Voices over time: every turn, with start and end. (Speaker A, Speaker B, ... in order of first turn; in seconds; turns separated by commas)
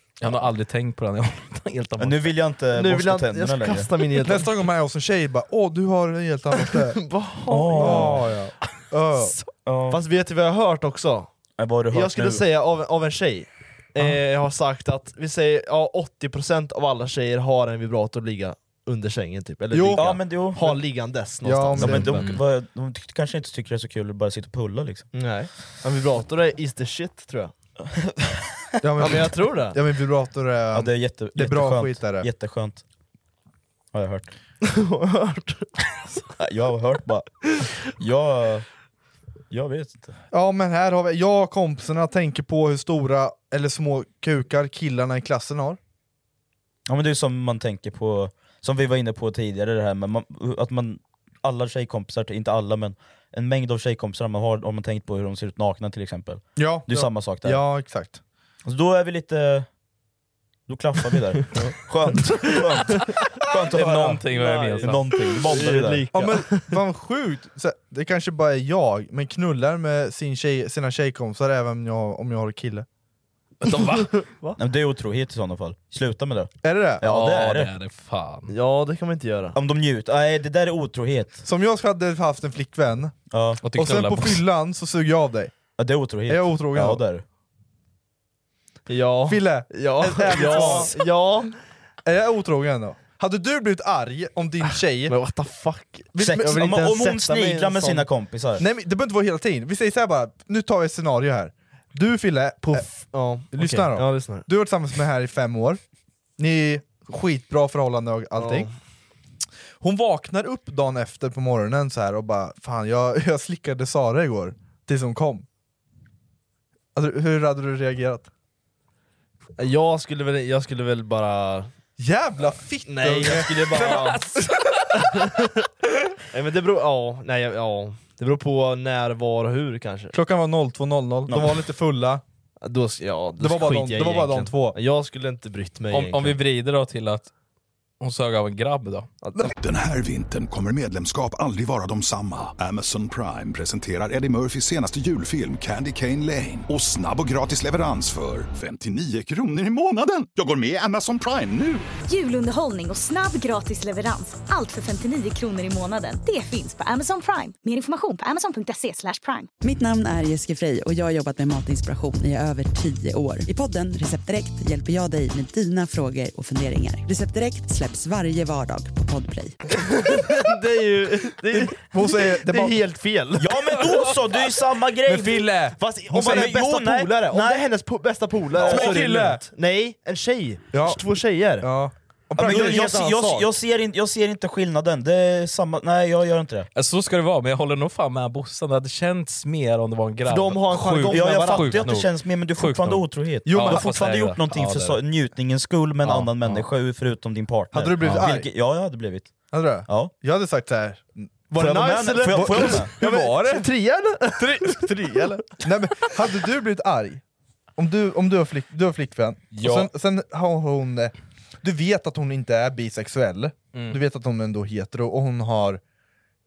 Speaker A: 0.2-2.4, Speaker B: 2.0-3.9, Speaker C: 2.7-4.5, Speaker D: 4.2-7.0, Speaker C: 6.6-8.2, Speaker B: 7.5-8.2, Speaker D: 7.8-9.3, Speaker B: 9.6-10.0, Speaker C: 9.9-11.3, Speaker B: 11.6-12.4, Speaker C: 11.9-22.2, Speaker D: 19.7-20.1, Speaker B: 19.9-20.8, Speaker D: 21.4-22.2, Speaker B: 21.8-25.1, Speaker A: 22.1-22.4, Speaker C: 25.1-27.5, Speaker B: 27.9-29.1, Speaker D: 28.8-32.3, Speaker C: 29.0-29.8, Speaker B: 30.7-32.8, Speaker B: 33.9-34.3, Speaker C: 34.6-35.7, Speaker B: 36.4-37.4, Speaker B: 37.9-38.7, Speaker B: 39.5-40.1, Speaker D: 40.3-45.8, Speaker B: 46.9-57.6, Speaker D: 56.6-58.2, Speaker B: 58.6-59.7, Speaker B: 60.7-66.1, Speaker C: 61.5-63.2, Speaker A: 63.7-65.0, Speaker C: 64.3-66.8, Speaker D: 66.1-72.9, Speaker A: 73.6-74.1, Speaker C: 73.9-74.6, Speaker B: 74.6-77.7, Speaker D: 76.6-77.0, Speaker A: 77.0-78.5, Speaker C: 78.5-79.6, Speaker B: 79.5-81.4, Speaker D: 81.4-83.1, Speaker B: 83.3-83.6, Speaker A: 83.6-84.4, Speaker D: 83.7-85.5, Speaker B: 85.8-87.2, Speaker D: 86.3-87.0, Speaker C: 88.9-91.6, Speaker D: 89.3-90.9, Speaker B: 90.4-90.9, Speaker D: 92.0-95.1, Speaker C: 95.1-96.2, Speaker D: 96.1-97.1, Speaker B: 96.2-98.6, Speaker C: 97.0-98.1, Speaker D: 98.6-102.9, Speaker C: 102.6-104.5, Speaker D: 103.5-105.8, Speaker D: 106.4-108.7, Speaker C: 108.4-108.7, Speaker D: 109.8-115.5, Speaker D: 116.9-118.3, Speaker C: 119.6-121.7, Speaker D: 122.0-124.1, Speaker C: 122.9-124.3, Speaker A: 123.7-125.0, Speaker C: 125.0-125.6, Speaker C: 126.3-130.1, Speaker D: 130.1-132.2, Speaker C: 132.6-136.4, Speaker D: 133.4-134.8, Speaker A: 135.9-137.3, Speaker A: 138.0-139.1, Speaker C: 139.2-139.5, Speaker E: 139.6-151.9, Speaker F: 152.1-159.5, Speaker G: 159.6-169.6, Speaker C: 169.7-174.1, Speaker D: 171.5-172.8, Speaker B: 173.4-177.6, Speaker D: 175.1-176.5, Speaker C: 175.6-181.7, Speaker B: 178.6-179.0, Speaker D: 178.6-179.4, Speaker D: 180.7-181.0, Speaker D: 181.6-182.9, Speaker B: 182.4-186.7, Speaker C: 182.4-183.5, Speaker A: 186.8-195.0, Speaker C: 190.2-191.9, Speaker B: 191.0-199.3, Speaker D: 193.4-193.9, Speaker A: 196.0-196.7, Speaker D: 197.7-198.5, Speaker D: 199.5-203.7, Speaker B: 199.9-200.1, Speaker C: 201.6-204.8, Speaker B: 201.6-202.9, Speaker D: 204.3-207.2, Speaker D: 207.8-215.8, Speaker A: 209.5-209.9, Speaker A: 213.7-214.0